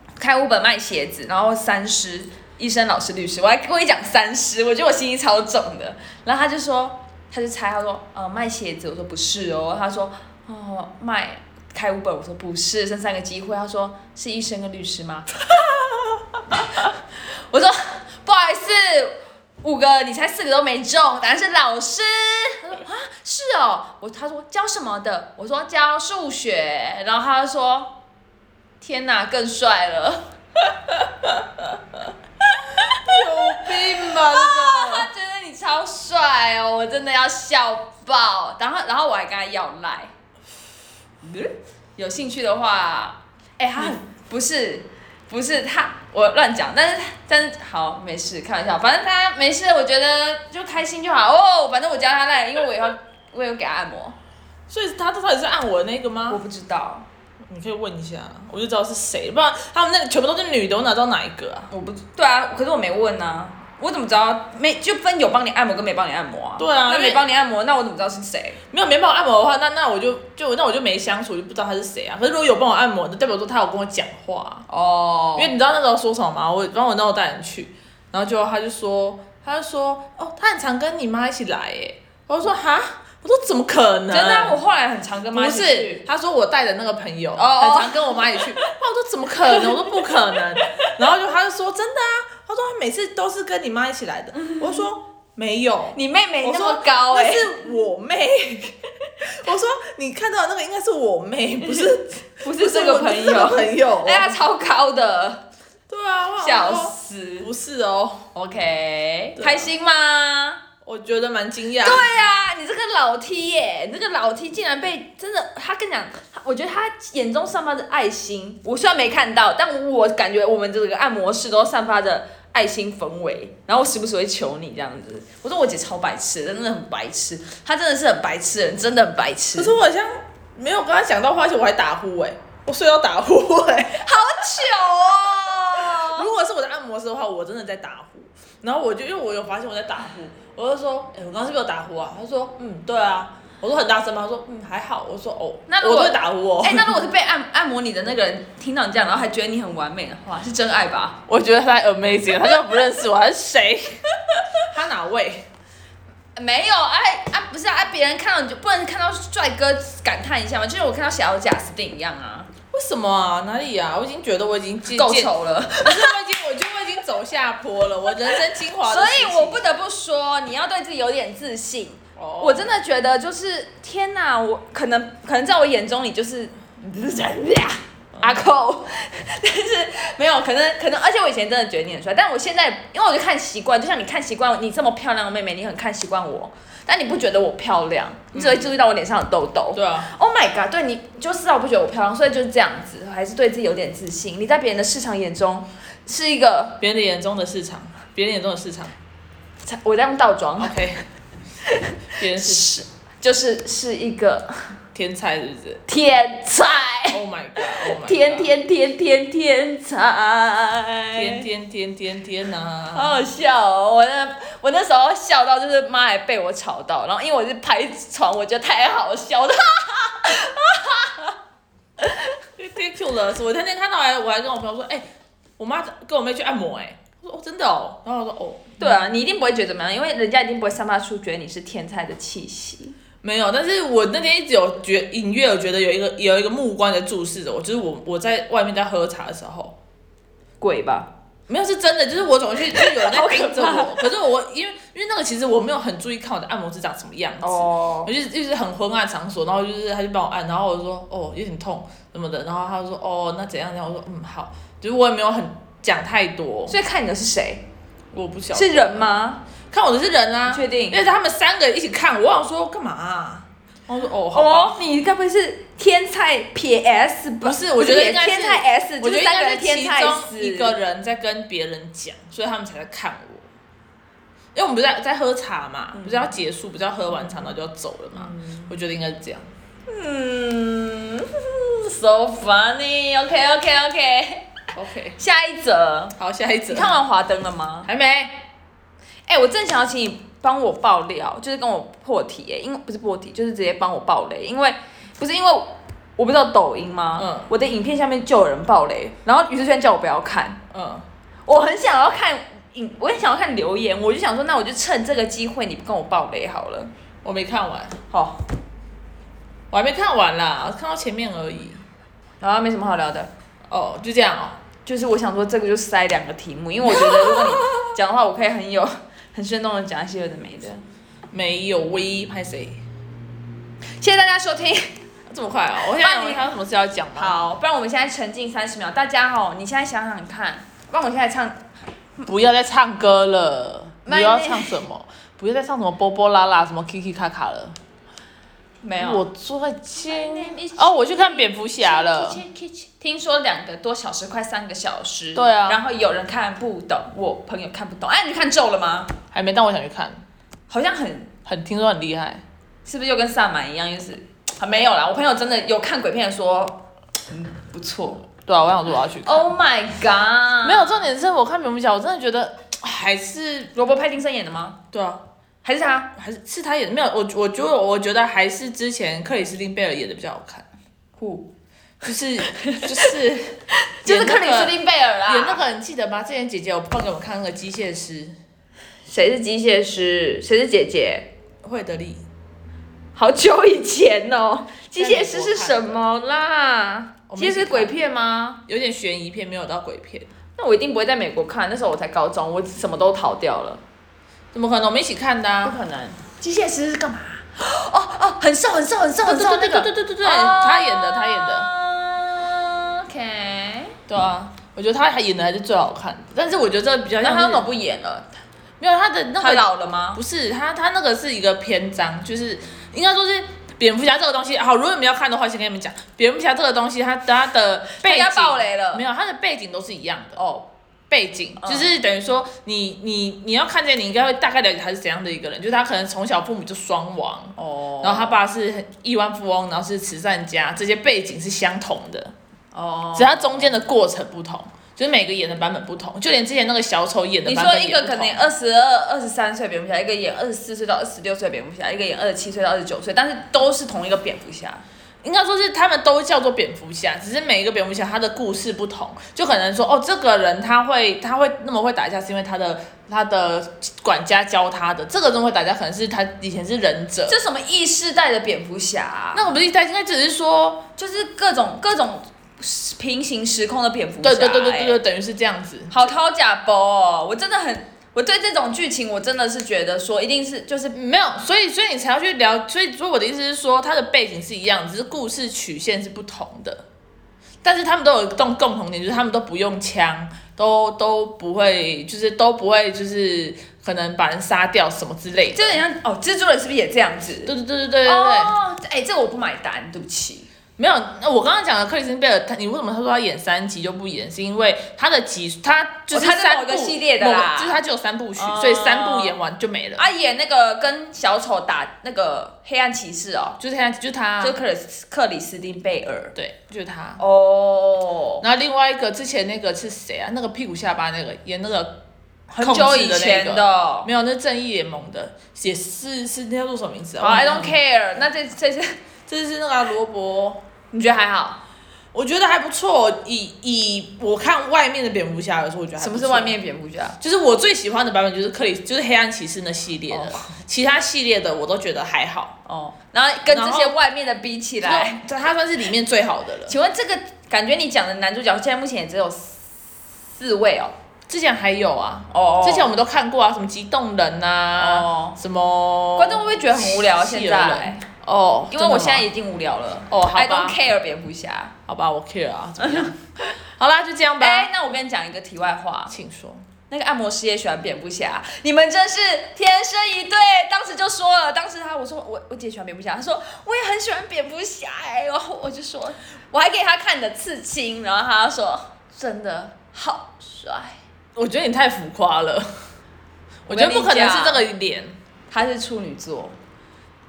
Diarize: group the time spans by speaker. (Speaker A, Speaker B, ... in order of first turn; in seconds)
Speaker A: 0.2-15.4, 16.5-27.9, 28.8-30.2, 32.9-40.1, 41.2-54.1, 56.3-57.1, 61.7-68.6, 74.7-75.5, 84.1-86.0, 87.3-88.7, 89.6-89.9, 94.3-94.8, 95.9-97.5, 102.4-105.4, 106.4-107.5, 108.3-110.6, 111.8-129.8, 134.0-136.3, 145.7-151.2, 156.3-162.5, 164.9-166.1, 168.3-196.8, 199.6-200.8, 201.6-204.6, 205.9-211.4, 212.9-221.3, 228.8-232.9, 240.6-241.1, 242.7-243.9, 247.4-248.1, 256.7-257.6, 258.5-259.4, 260.5-261.0, 264.3-270.7, 275.9-276.3, 278.1-278.7, 279.9-284.5, 285.2-286.1, 286.7-287.9, 289.3-300.6, 301.4-306.9, 308.1-308.4, 312.4-313.3, 314.8-320.8, 323.9-324.9, 325.8-326.5, 327.1-331.6, 334.0-334.8, 338.8-339.2, 340.0-349.1, 350.7-351.3, 352.8-358.2, 359.2-361.0, 363.7-364.8, 365.6-366.1, 371.1-371.5, 372.5-373.1, 373.9-375.6, 379.1-381.3, 383.1-388.6, 390.6-393.8, 395.6-403.9, 407.2-408.3, 409.4-410.2, 418.0-419.0, 420.4-420.6, 421.6-422.0, 427.6-428.4, 432.7-433.8, 437.4-444.8, 457.3-459.5, 461.0-465.0, 465.9-470.9, 485.5-487.5, 488.0-490.5, 496.1-497.8, 498.4-499.4, 500.0-503.6, 504.4-506.3, 507.2-508.4, 512.5-514.1, 517.2-519.0, 520.9-521.6, 526.0-527.2, 530.1-530.6, 532.6-535.2, 536.7-539.7, 540.3-540.9, 542.3-542.9, 544.8-545.4, 546.2-548.0, 548.7-551.7, 552.8-553.1, 554.4-556.1, 556.9-571.0, 573.7-574.6, 575.5-576.6
Speaker B: 32.8-35.1, 54.7-56.4, 57.5-61.7, 66.6-67.2, 68.7-74.7, 75.4-84.6, 85.3-104.4, 105.9-108.3, 109.4-109.7, 110.8-112.1, 129.6-134.1, 135.8-147.0, 151.3-154.0, 154.6-155.4, 162.7-169.6, 172.2-172.7, 178.2-178.4, 188.3-188.7, 189.7-190.1, 196.8-198.9, 200.6-201.0, 202.2-202.6, 204.9-205.8, 207.1-208.5, 211.1-213.1, 222.6-225.0, 225.6-229.0, 233.2-239.7, 241.5-256.8, 258.1-259.1, 259.7-264.8, 267.4-273.5, 274.5-279.5, 284.7-285.2, 286.2-287.0, 287.9-288.4, 297.2-297.5, 300.7-301.1, 307.2-308.0, 309.7-311.8, 313.7-314.6, 316.9-317.8, 321.3-322.8, 325.3-327.4, 332.2-337.8, 339.0-342.4, 345.3-345.8, 349.3-350.2, 351.4-352.4, 358.4-359.5, 360.6-363.7, 364.9-365.2, 366.1-370.7, 372.0-374.7, 375.3-378.4, 381.6-382.2, 384.9-386.0, 387.3-387.9, 388.7-390.3, 394.5-395.8, 399.2-401.7, 404.1-407.7, 408.8-420.5, 421.1-432.3, 433.1-438.4, 445.2-457.4, 459.3-460.8, 464.2-466.1, 470.9-476.8, 477.6-485.8, 487.4-488.5, 490.8-500.0, 503.6-504.6, 506.4-507.2, 508.4-512.0, 512.6-517.8, 519.3-520.6, 522.1-526.5, 527.2-532.5, 533.5-533.9, 534.8-536.8, 541.3-549.3, 550.1-550.8, 551.9-553.2, 553.7-554.7, 556.1-556.6, 571.4-572.7, 573.6-575.2